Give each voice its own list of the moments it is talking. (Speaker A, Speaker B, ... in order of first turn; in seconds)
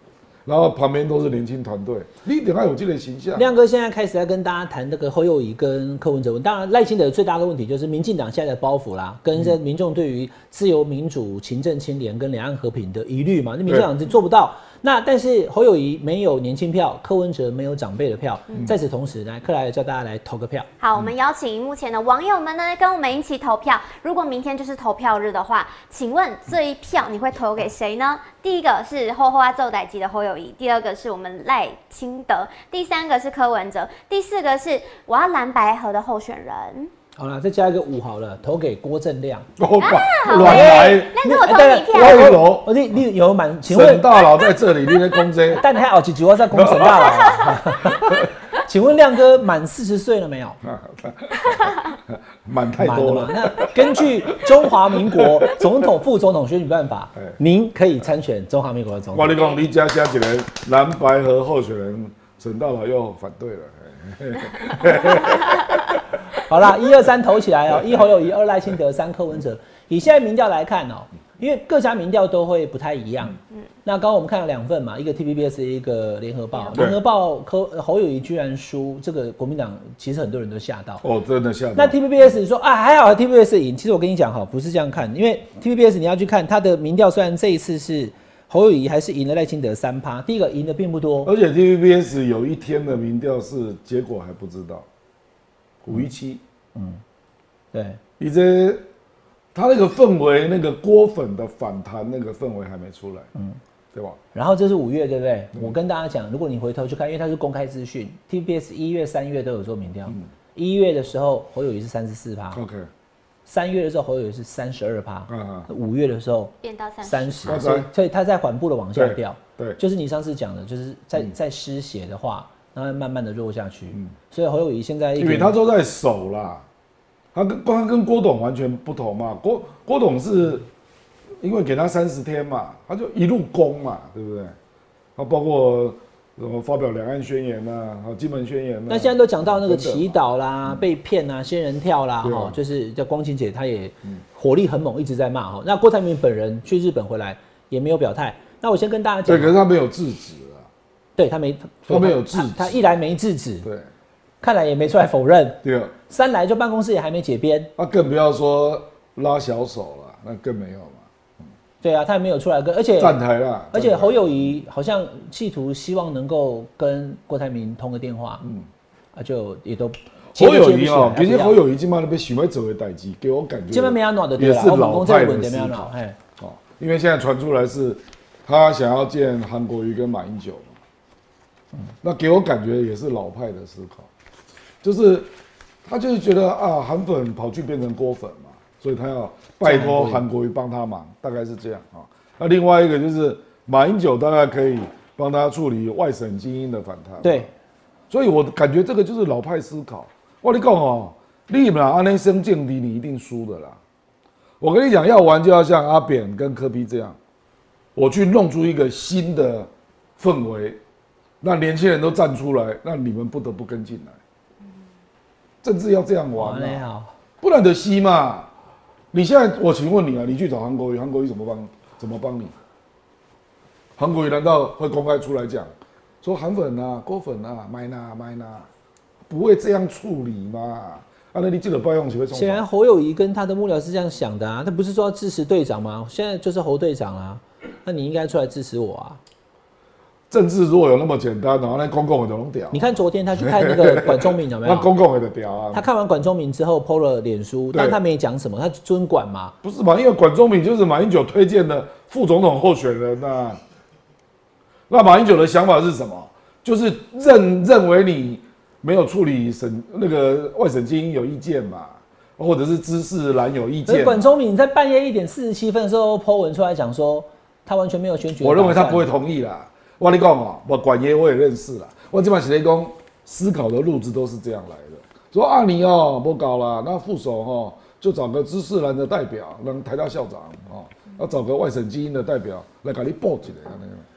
Speaker A: 0.5-3.5, 39.6-41.2, 41.9-42.7, 43.7-45.6, 46.5-47.5, 50.6-55.6, 59.1-65.9, 76.7-77.0, 81.0-82.0, 91.2-94.8, 95.8-96.4, 98.2-98.8, 99.5-103.3, 103.9-104.2, 112.5-112.9, 115.3-115.7, 117.4-117.9, 118.9-119.8, 125.2-126.6, 127.3-130.7, 131.4-134.5, 135.2-140.2, 142.2-142.6, 149.2-150.7, 151.9-152.8, 155.6-155.9, 157.8-161.0, 163.0-164.4, 170.3-180.7, 182.0-184.1, 184.8-185.3, 185.8-197.5, 198.1-203.8, 204.6-207.2, 207.9-210.8, 211.4-214.2, 215.6-216.8, 217.4-218.5, 219.1-222.5, 224.0-225.7, 226.2-228.7, 229.3-232.6, 240.3-245.9, 247.7-248.0, 249.6-253.6, 254.9-264.2, 268.4-284.0
Speaker B: 3.3-20.7, 37.2-39.5, 40.3-44.0, 45.5-50.6, 52.8-59.5, 66.4-81.0, 81.7-91.3, 96.7-97.0, 97.7-98.0, 104.3-112.6, 113.5-125.5, 138.9-149.6, 151.2-153.7, 154.4-157.7, 161.8-163.2, 163.7-168.4, 169.1-171.6, 173.7-176.2, 189.6-190.2, 197.2-197.5, 216.3-217.1, 232.3-239.2, 242.7-244.9, 245.7-249.5, 263.9-269.1
Speaker C: 20.8-36.9, 39.8-42.4, 116.6-117.6